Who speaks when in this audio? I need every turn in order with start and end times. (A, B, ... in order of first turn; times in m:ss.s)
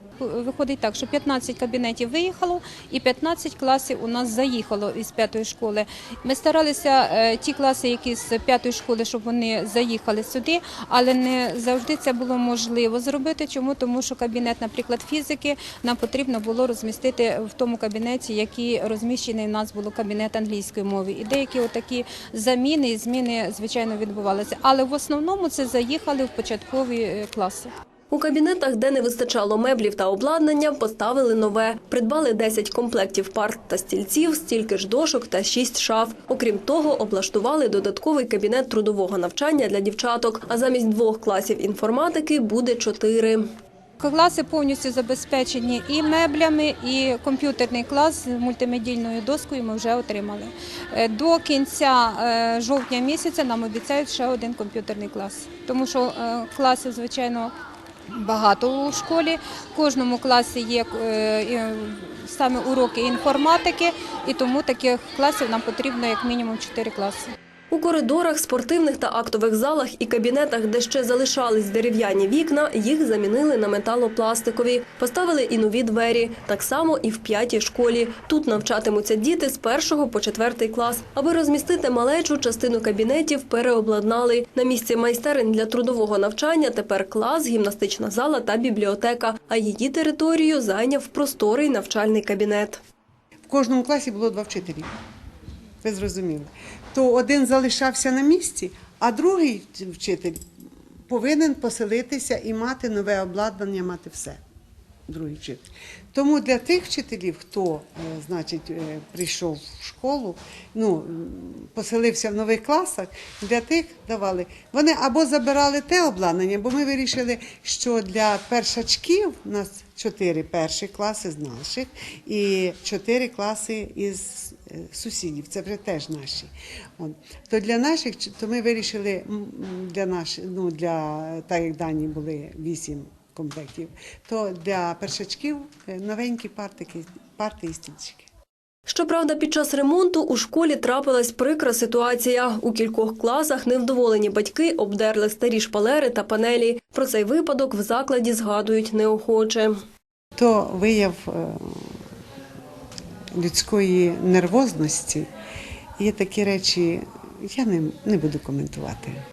0:00.2-0:27.7 A
0:28.1-0:43.5 B
0:44.0-0:57.5 A
0:58.1-1:07.3 A
1:07.7-1:32.8 B
1:33.5-1:34.9 C
1:35.8-1:40.5 C
1:41.1-1:44.4 C
1:45.1-2:18.3 C
2:18.9-2:29.8 B
2:30.4-2:31.9 C
2:33.3-2:35.3 C
2:36.0-2:39.2 C